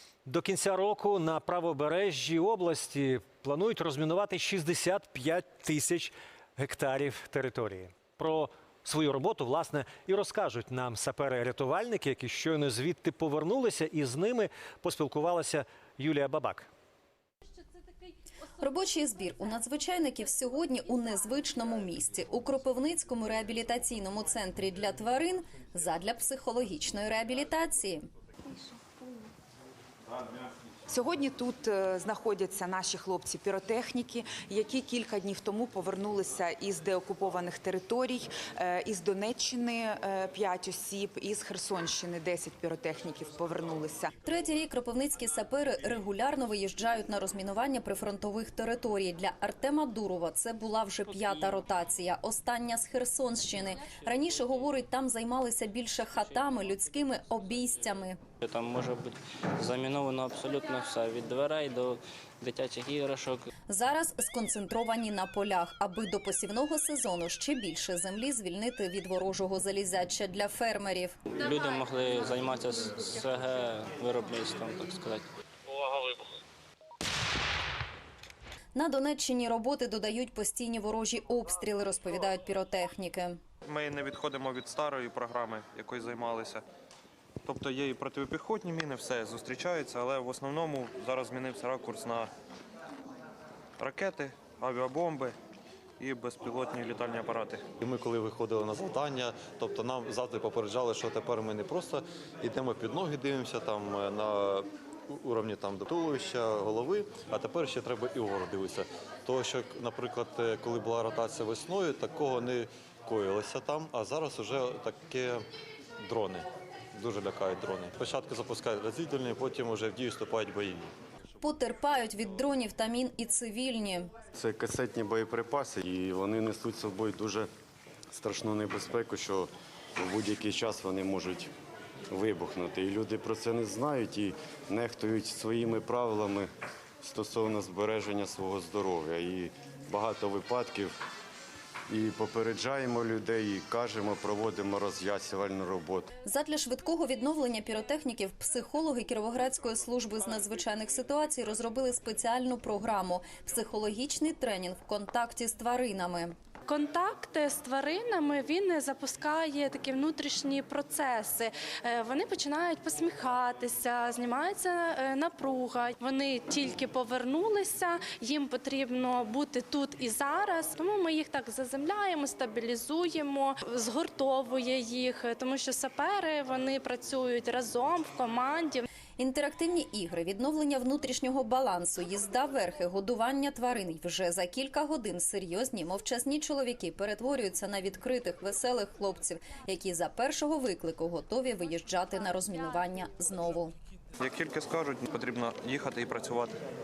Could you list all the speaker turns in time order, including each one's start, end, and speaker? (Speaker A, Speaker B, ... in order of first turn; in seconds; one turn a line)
Speaker A: 0.2-16.7
Speaker B: 18.6-28.0
Speaker C: 30.9-44.1
Speaker B: 44.2-58.2
Speaker D: 58.4-63.5
Speaker B: 63.7-71.2
Speaker D: 71.3-76.0
Speaker B: 78.7-83.4
Speaker E: 83.7-86.6
Speaker E: 87.4-92.3
Speaker E: 93.8-95.3
Speaker E: 96.0-97.6
Speaker F: 97.8-115.4
Speaker F: 116.0-120.9
Speaker B: 121.4-124.1
Speaker G: 124.3-127.5
Speaker G: 128.1-131.5
Speaker G: 132.1-136.5
Speaker G: 137.0-140.9
Speaker G: 141.9-146.1
Speaker B: 146.2-156.3
Speaker H: 156.7-178.9
Speaker B: 179.2-193.7
Speaker E: 194.2-196.6